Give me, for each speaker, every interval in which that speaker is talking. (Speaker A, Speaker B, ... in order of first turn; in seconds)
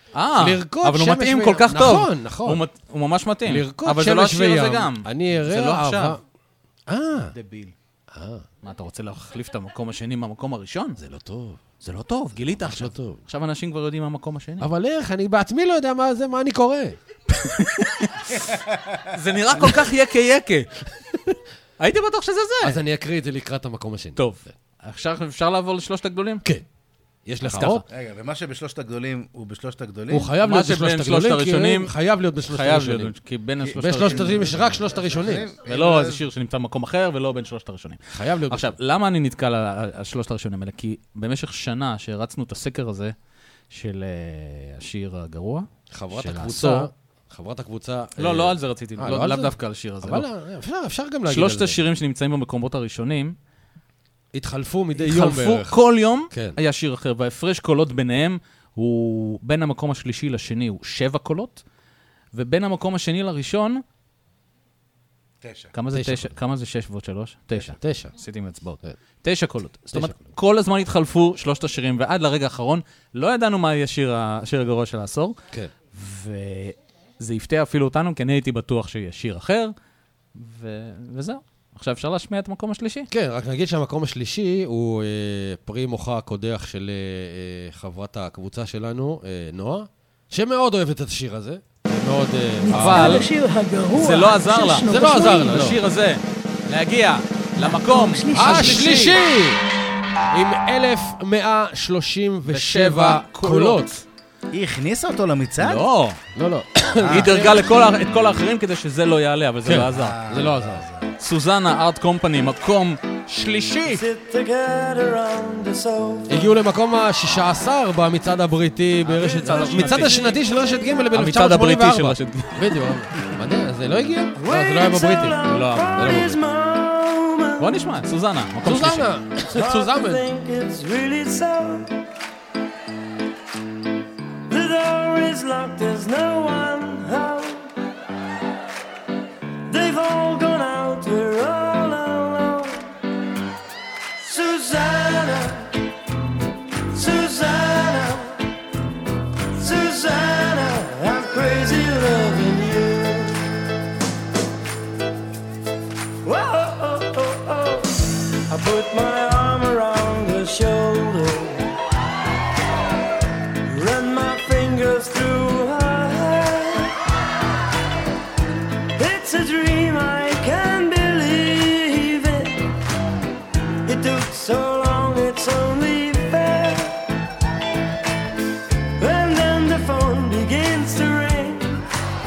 Speaker A: 0.1-6.2, 7.4-7.7, 8.6-11.0, 11.8-14.7, 17.5-18.3, 19.1-20.8, 21.8-22.8, 24.2-26.4, 27.4-27.8, 30.4-34.7, 35.7-43.1, 43.7-46.9, 48.2-50.3, 51.3-53.4, 55.0-61.6, 62.3-63.8, 65.7-75.4, 76.0-79.7, 80.4-83.1, 92.7-93.3, 94.0-99.2, 102.5-104.0, 105.6-106.2, 107.0-110.2, 111.2-114.0, 119.1-120.4, 121.1-122.8, 125.4-126.1, 127.6-129.1
Speaker B: 0.4-2.6, 3.5-6.2, 6.9-7.3, 8.1-8.4, 11.0-11.8, 12.6-13.2, 14.6-17.0, 22.6-24.5, 27.2-27.8, 30.1-33.1, 33.8-35.5, 38.1-38.7, 45.9-51.8, 54.3-55.8, 56.3-56.6, 65.9-66.3, 67.7-68.1, 69.8-70.2, 83.1-93.3, 94.9-95.8, 98.3-99.6, 100.3-104.0, 106.4-107.6, 109.7-110.8, 116.3-125.4, 126.0-126.4, 128.6-130.2
Speaker C: 7.4-7.7, 18.6-19.0, 27.9-30.3, 33.6-36.2, 65.4-65.7, 104.5-105.8, 107.0-107.5, 109.9-111.1
Speaker D: 92.6-95.6, 97.6-99.0
Speaker E: 113.9-116.5, 124.3-127.8, 129.5-131.9, 134.5-137.7, 139.7-142.8, 144.2-145.7, 146.9-148.4, 149.6-153.4, 156.2-161.7, 163.7-166.9, 169.0-172.7, 173.8-177.0, 179.0-181.8